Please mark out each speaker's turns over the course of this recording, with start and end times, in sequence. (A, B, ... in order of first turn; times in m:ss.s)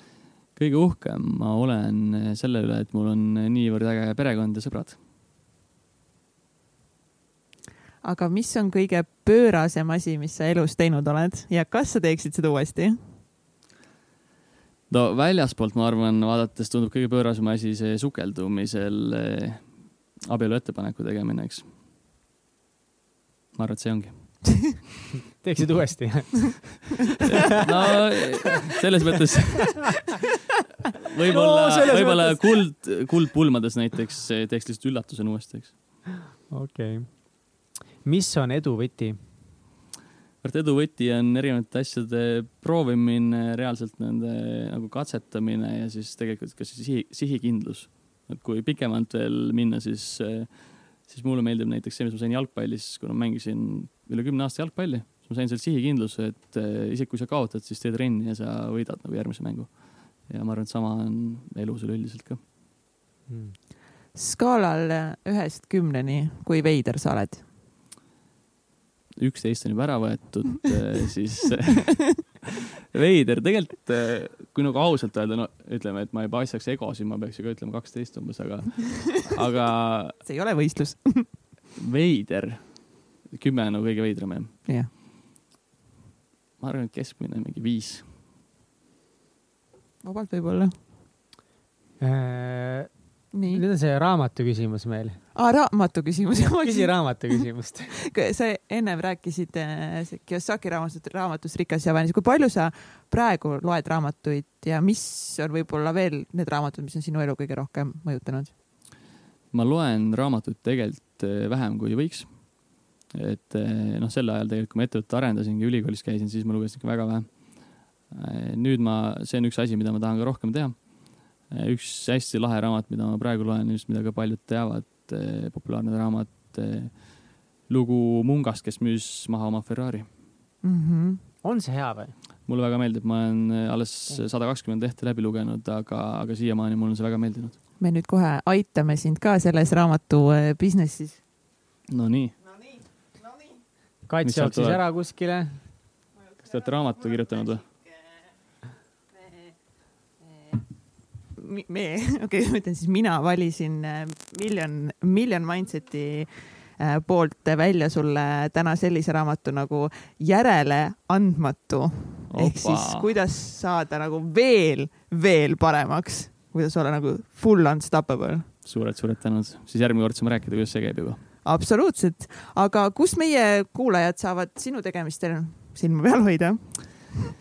0:00.6-0:05.0 A
0:08.0-0:13.1 B
0:14.9-0:21.7 A
0:23.5-0:24.8 A
0:25.4-0:26.9 C
0:27.2-0:30.1 A
0:31.1-0:35.7 A
0:31.3-0:32.5 C
0:36.5-0:39.2 C
0:40.4-1:02.4 A
1:03.3-1:03.6 C
1:04.1-1:07.4 B
1:09.2-1:12.4 A
1:12.9-1:20.2 A
1:20.2-1:21.4 B
1:21.8-1:24.6 A
1:24.6-1:24.9 B
1:26.6-1:28.1 A
1:30.0-1:30.8 B
1:32.0-1:35.2 C
1:33.3-1:33.6 B
1:35.3-1:48.5 B
1:36.4-1:37.9 C
1:49.5-1:52.6 A
1:53.1-2:10.1 A
2:10.6-2:11.2 B
2:11.4-2:12.1 C
2:12.4-2:17.6 A
2:17.8-2:21.2 B
2:21.9-2:22.4 A
2:24.0-2:25.7 C
2:24.2-2:24.8 A
2:26.4-2:27.7 A
2:31.2-2:48.5 B
2:42.3-2:43.1 A
2:48.6-2:51.2 A
2:51.4-2:57.2 B